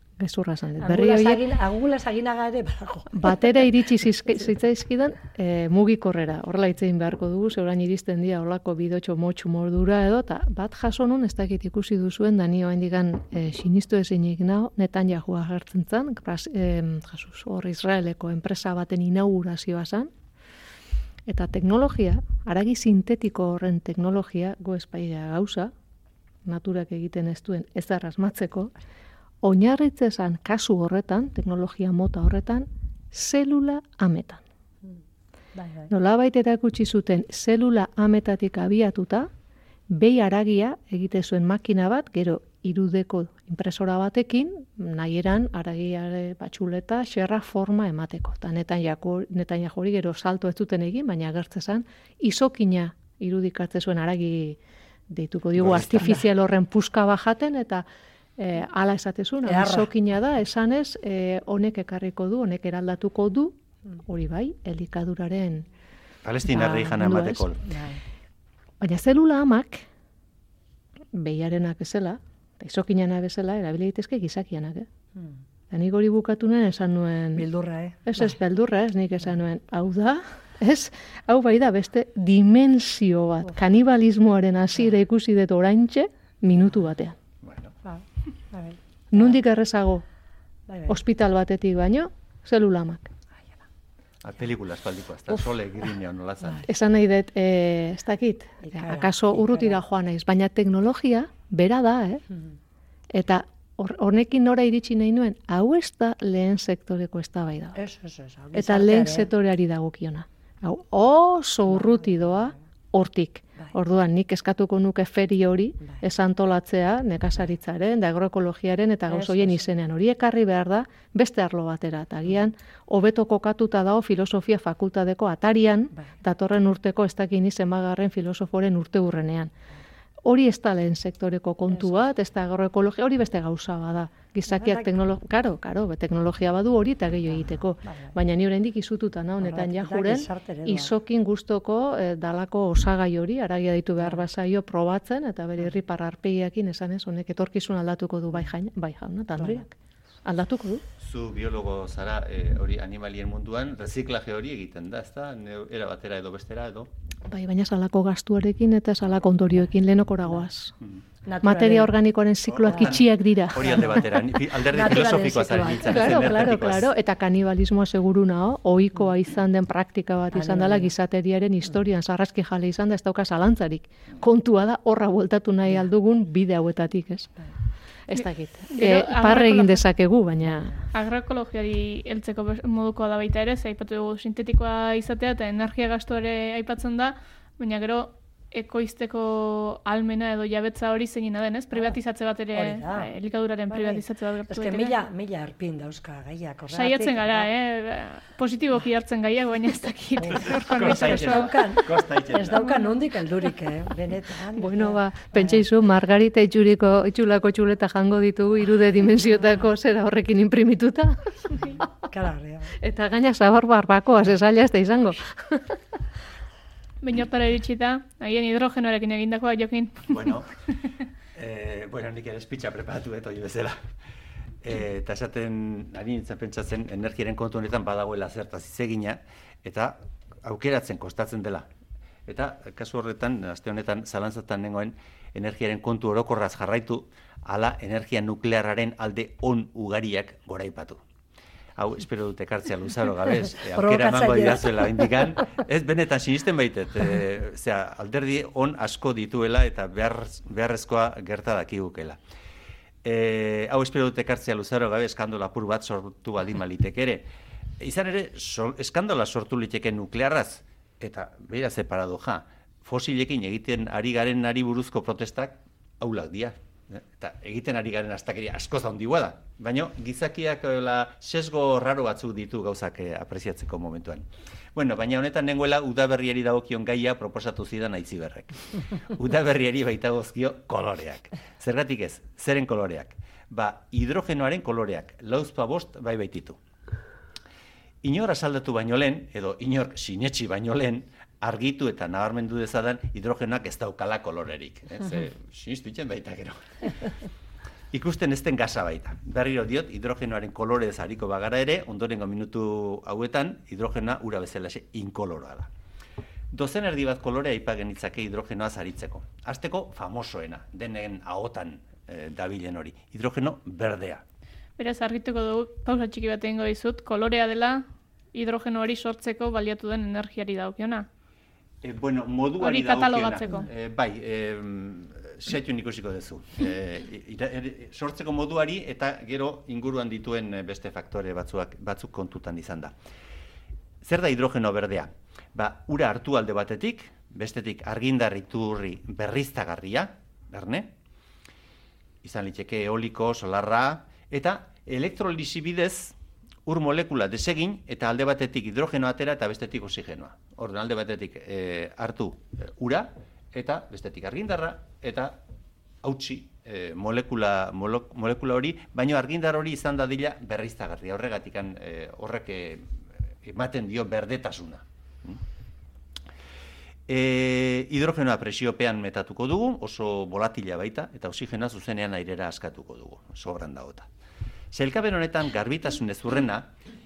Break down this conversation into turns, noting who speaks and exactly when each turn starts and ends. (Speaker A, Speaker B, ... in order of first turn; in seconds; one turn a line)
Speaker A: 0.2-1.4
Speaker B: 0.8-3.6
Speaker A: 3.1-20.1
Speaker A: 21.3-25.7
Speaker A: 26.4-28.7
Speaker A: 29.4-34.4
Speaker B: 35.5-35.9
Speaker A: 35.9-39.3
Speaker A: 39.9-54.6
Speaker A: 55.1-57.9
Speaker C: 55.5-56.2
Speaker A: 58.4-65.7
Speaker B: 59.4-59.9
Speaker C: 66.2-67.6
Speaker A: 66.4-67.4
Speaker B: 67.6-68.0
Speaker A: 68.8-69.8
Speaker A: 71.1-74.9
Speaker A: 75.7-77.5
Speaker B: 77.3-78.3
Speaker A: 78.0-87.2
Speaker C: 87.4-87.7
Speaker B: 87.8-89.4
Speaker A: 89.1-90.0
Speaker B: 90.7-91.0
Speaker A: 90.9-93.1
Speaker C: 94.2-96.7
Speaker A: 96.7-102.2
Speaker B: 98.6-99.8
Speaker A: 103.1-107.8
Speaker B: 107.7-109.3
Speaker A: 108.5-129.5
Speaker B: 111.7-112.6
Speaker B: 119.1-119.7
Speaker A: 130.2-149.7
Speaker B: 131.7-132.0
Speaker B: 134.5-134.9
Speaker B: 137.3-138.2
Speaker B: 139.4-140.9
Speaker B: 144.0-144.2
Speaker B: 149.3-149.6
Speaker A: 150.2-150.8
Speaker C: 151.0-156.9
Speaker A: 157.3-160.7
Speaker B: 161.2-161.9
Speaker A: 161.4-163.8
Speaker C: 162.5-166.9
Speaker B: 162.6-163.0
Speaker B: 163.6-166.6
Speaker A: 165.8-177.3
Speaker B: 170.3-170.9
Speaker A: 178.1-180.7
Speaker D: 178.7-179.8
Speaker B: 180.4-180.8
Speaker D: 180.9-194.9
Speaker B: 191.7-192.0
Speaker B: 192.5-193.1
Speaker B: 193.7-197.5
Speaker D: 196.7-201.7
Speaker B: 200.2-205.7
Speaker C: 200.3-202.6
Speaker A: 204.6-211.8
Speaker B: 212.0-212.7
Speaker A: 212.8-215.8
Speaker D: 217.0-220.2
Speaker C: 220.1-220.5
Speaker C: 221.3-223.8
Speaker C: 224.6-231.7
Speaker C: 232.3-241.0
Speaker C: 241.8-252.2
Speaker B: 243.6-245.4
Speaker C: 253.0-257.3
Speaker C: 257.8-286.6
Speaker C: 288.0-296.6
Speaker C: 297.9-305.7
Speaker C: 306.5-314.2
Speaker D: 314.8-321.1
Speaker C: 321.8-332.9
Speaker D: 322.6-323.7
Speaker C: 334.0-340.9
Speaker C: 342.2-355.4
Speaker C: 356.0-362.9
Speaker C: 363.4-365.4
Speaker C: 367.1-374.1
Speaker C: 374.7-376.7